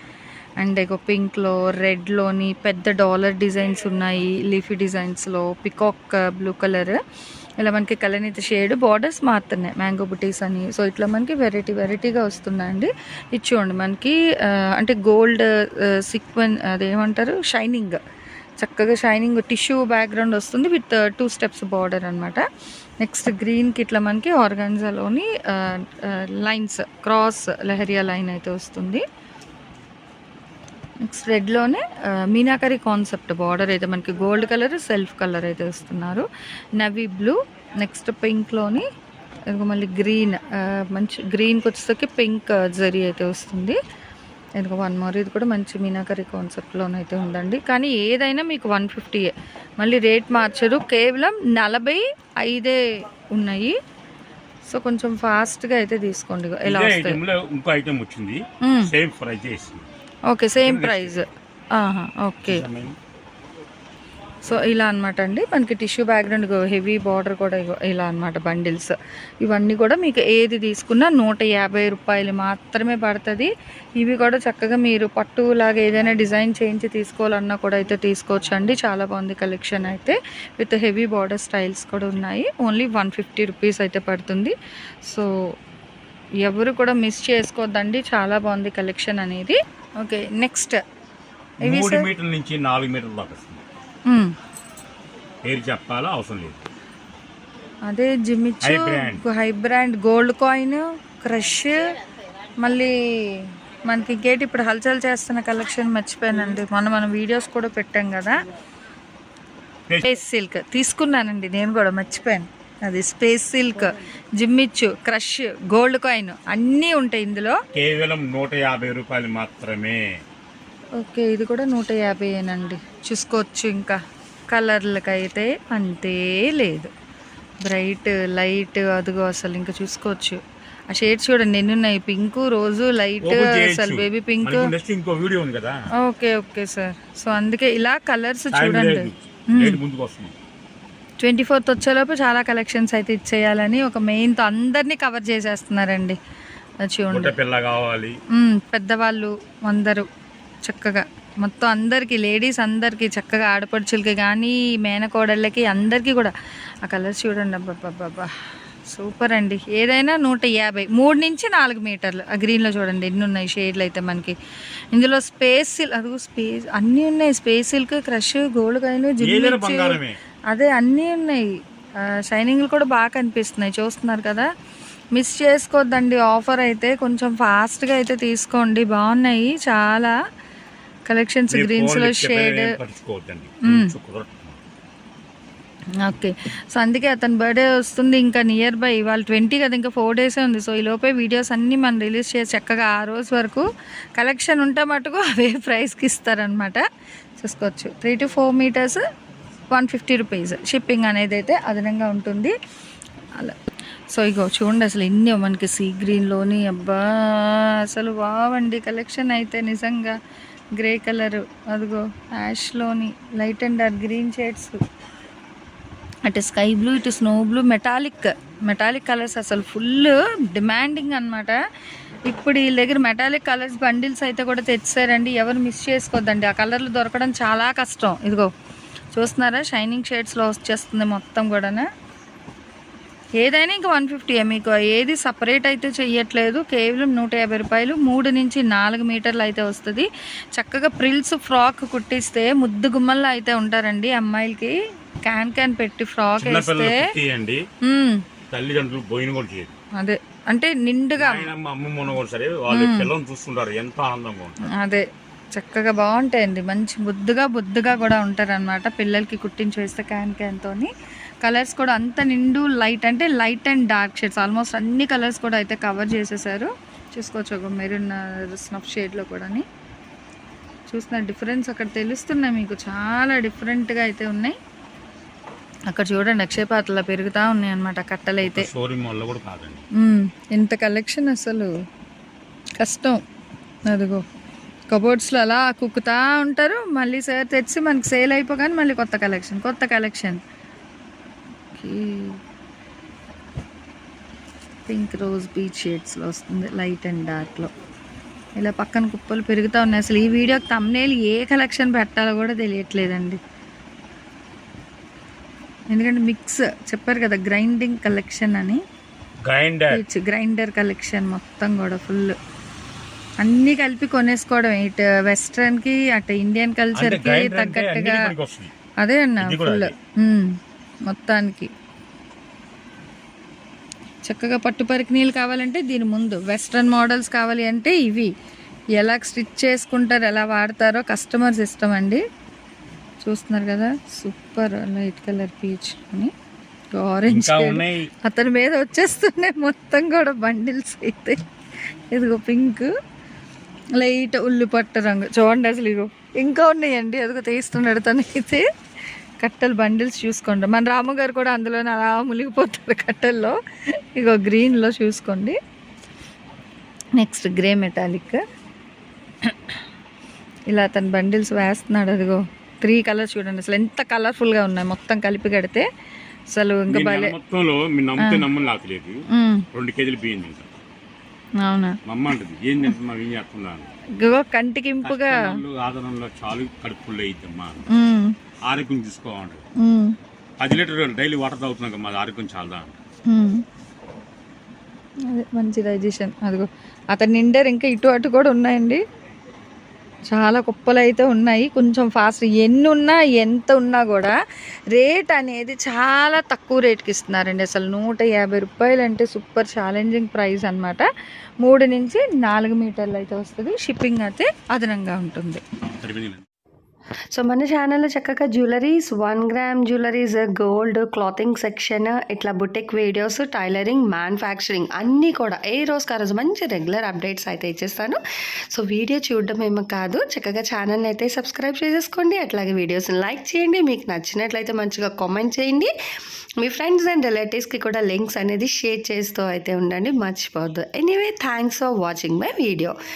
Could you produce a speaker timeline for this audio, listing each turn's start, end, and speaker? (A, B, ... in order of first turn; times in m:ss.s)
0:00.6-0:07.0 A
0:07.6-0:18.0 A
0:18.6-0:22.4 A
0:23.0-0:29.0 A
0:31.0-0:36.2 A
0:36.8-0:38.8 A
0:39.5-0:43.8 A
0:44.6-0:52.8 A
0:53.3-0:53.8 A
0:54.7-0:57.2 A
0:56.6-0:59.8 B
0:58.6-0:58.9 A
1:00.3-1:02.6 A
1:00.6-1:01.2 B
1:02.4-1:03.0 B
1:04.4-1:25.3 A
1:26.4-1:30.8 A
1:31.6-1:32.1 A
1:31.6-1:33.6 B
1:34.1-1:34.3 A
1:35.4-1:36.6 B
1:37.9-1:41.8 A
1:38.6-1:39.2 B
1:42.6-1:48.4 A
1:49.9-1:50.2 B
1:50.0-1:57.6 A
1:57.7-2:00.0 B
2:01.0-2:04.0 A
2:04.5-2:06.9 A
2:07.6-2:14.7 A
2:13.2-2:15.7 B
2:16.0-2:19.8 A
2:18.5-2:20.3 B
2:21.2-2:26.2 A
2:26.8-2:27.3 A
2:27.1-2:28.2 B
2:28.3-2:30.1 A
2:30.6-2:36.3 A
2:36.8-2:38.3 A
2:38.9-2:44.4 A
2:44.9-2:50.0 A
2:49.2-2:50.2 B
2:50.5-2:51.4 A
2:52.0-2:54.5 A
2:55.1-3:00.1 A
3:01.1-3:02.8 A
3:01.5-3:04.6 B
3:03.6-3:03.9 A
3:06.0-3:16.8 A
3:17.4-3:19.0 A
3:19.7-3:22.5 A
3:24.1-3:30.1 A
3:30.7-3:34.8 A
3:36.2-3:41.6 A
3:42.2-3:48.5 A
3:49.1-3:51.9 A
3:53.4-4:07.0 A
4:06.4-4:07.6 B
4:07.8-4:08.2 A
4:08.5-4:09.8 B
4:10.0-4:11.5 A
4:11.2-4:14.6 B
4:12.7-4:13.1 A
4:14.8-4:20.9 A
4:21.4-4:29.6 A
4:30.9-4:34.6 A
4:35.9-4:38.7 A
4:38.4-4:39.8 B
4:40.0-4:41.7 A
4:42.8-4:43.2 A
4:43.9-4:44.2 A
4:44.9-4:50.4 A
4:51.7-4:52.4 A
4:54.9-4:57.7 A
4:58.6-5:03.4 A
5:05.9-5:08.8 A
5:09.4-5:10.0 B
5:09.9-5:12.4 A
5:13.4-5:18.3 A
5:16.9-5:18.7 B
5:19.0-5:20.5 A
5:19.4-5:19.9 B
5:21.1-5:21.7 A
5:24.2-5:28.3 A
5:29.0-5:32.2 A
5:33.2-5:36.3 A
5:36.9-5:41.4 A
5:37.2-5:38.1 B
5:42.1-5:42.9 A
5:44.0-5:48.6 A
5:49.4-5:53.6 A
5:54.1-5:55.6 A
5:57.2-5:58.4 A
5:59.4-5:59.8 A
6:00.7-6:05.8 A
6:06.5-6:07.3 A
6:06.9-6:09.2 B
6:08.2-6:08.4 A
6:09.3-6:09.6 A
6:09.7-6:10.7 B
6:11.6-6:12.0 A
6:12.0-6:13.9 B
6:14.2-6:15.6 A
6:15.0-6:17.8 B
6:17.9-6:18.3 A
6:18.6-6:19.6 B
6:19.8-6:20.1 A
6:20.6-6:23.0 B
6:23.3-6:23.6 A
6:25.3-6:29.0 A
6:30.3-6:34.3 A
6:34.9-6:41.1 A
6:41.6-6:45.6 A
6:46.0-6:46.4 B
6:47.3-6:58.2 C
6:58.7-7:05.9 C
7:06.6-7:12.9 C